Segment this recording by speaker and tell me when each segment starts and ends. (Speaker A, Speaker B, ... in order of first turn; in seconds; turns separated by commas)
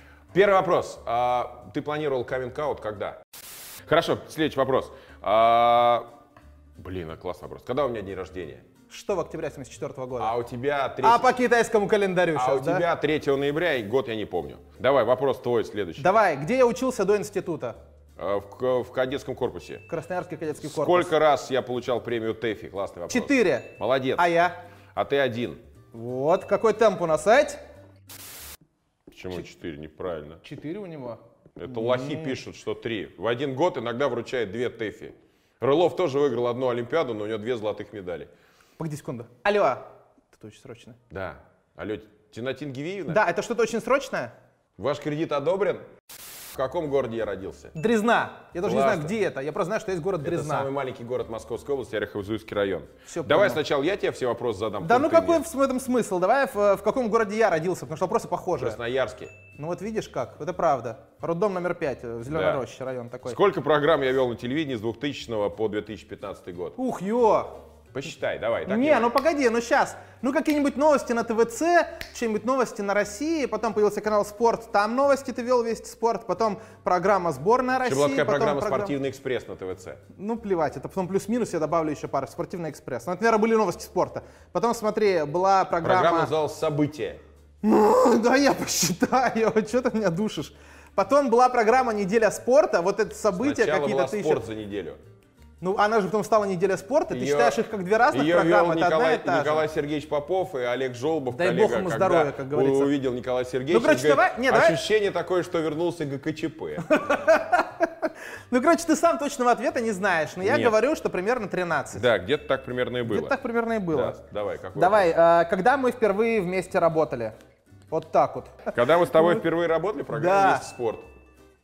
Speaker A: 0.3-3.2, Speaker A: 3.9-6.1, Speaker A: 6.8-8.6, Speaker B: 8.9-10.3, Speaker A: 10.2-11.3, Speaker B: 11.0-12.8, Speaker A: 12.3-16.1, Speaker B: 16.0-17.8, Speaker A: 18.2-19.8, Speaker B: 19.9-21.1, Speaker A: 20.6-24.3, Speaker B: 23.1-24.6, Speaker A: 24.9-25.6, Speaker B: 25.9-27.6, Speaker A: 29.1-30.4, Speaker B: 30.4-32.4, Speaker A: 31.6-38.3, Speaker B: 38.8-41.0, Speaker A: 41.1-43.2, Speaker B: 43.1-44.3, Speaker A: 44.8-45.9, Speaker A: 46.5-47.7, Speaker B: 47.8-50.7, Speaker A: 48.6-49.1, Speaker A: 50.2-55.4, Speaker B: 53.0-53.6, Speaker B: 54.8-58.8, Speaker A: 58.6-59.3, Speaker B: 59.5-63.4, Speaker A: 62.3-62.6, Speaker A: 63.2-66.8, Speaker B: 66.8-67.5, Speaker A: 67.9-69.1, Speaker B: 68.7-78.9, Speaker A: 77.8-80.0, Speaker B: 80.1-86.3, Speaker A: 85.8-87.2, Speaker B: 87.6-94.4, Speaker A: 93.3-95.0, Speaker B: 95.6-99.7, Speaker A: 97.1-106.9, Speaker B: 101.3-102.9, Speaker B: 103.7-104.8, Speaker B: 106.8-112.1, Speaker A: 110.4-110.7, Speaker A: 111.9-113.4, Speaker B: 113.0-114.2, Speaker A: 113.9-115.1, Speaker B: 114.7-117.3, Speaker B: 117.9-119.4, Speaker A: 118.7-121.0, Speaker B: 120.1-120.6